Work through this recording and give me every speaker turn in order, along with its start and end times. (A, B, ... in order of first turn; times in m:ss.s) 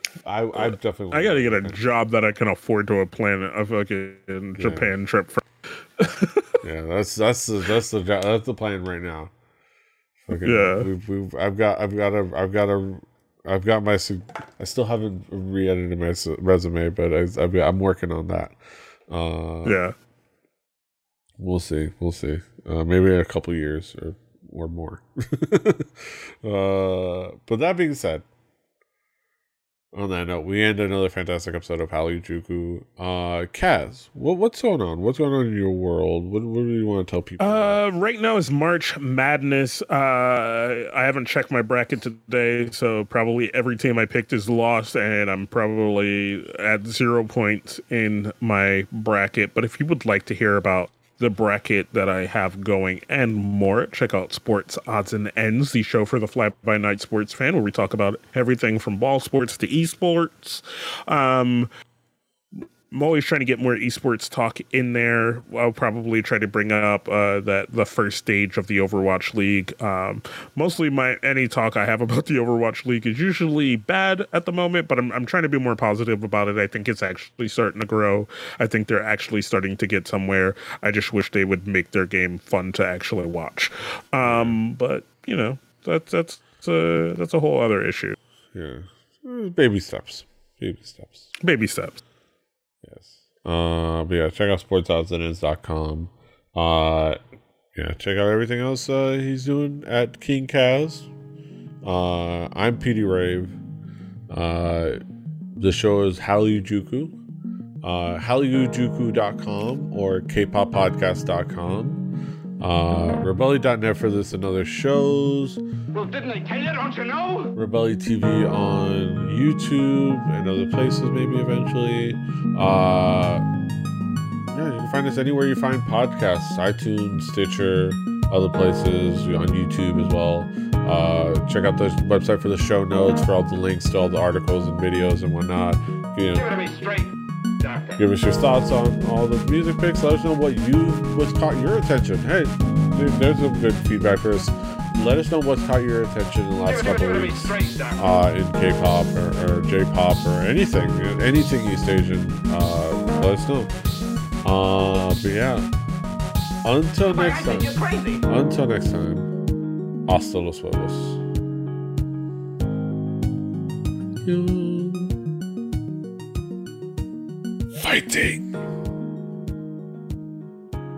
0:00.2-0:01.8 A
0:00.6-0:05.4 B
0:04.6-0:04.9 A
0:06.0-0:06.6 B
0:06.6-0:09.3 A
0:10.2-0:18.5 A
0:10.4-0:10.9 B
0:19.1-0:19.8 A
0:19.6-0:19.9 B
0:21.4-0:28.2 A
0:29.9-0:37.8 A
0:37.4-1:01.7 B
1:02.9-1:28.2 B
1:24.2-1:24.6 A
1:28.5-1:31.3 A
1:31.4-1:32.0 B
1:32.8-1:37.2 A
1:37.7-1:41.1 A
1:41.8-1:43.6 A
1:44.3-1:45.0 A
1:45.5-1:47.2 A
1:47.8-1:52.0 A
1:52.6-1:55.6 A
1:55.9-1:57.5 C
1:57.5-2:03.4 A
2:04.5-2:16.4 A
2:16.3-2:18.0 C
2:18.0-2:33.7 A
2:26.7-2:28.0 C
2:34.4-2:35.6 A
2:36.6-2:39.3 A
2:37.1-2:38.2 C
2:40.0-2:41.2 A
2:44.2-2:45.2 A
2:47.8-2:48.5 A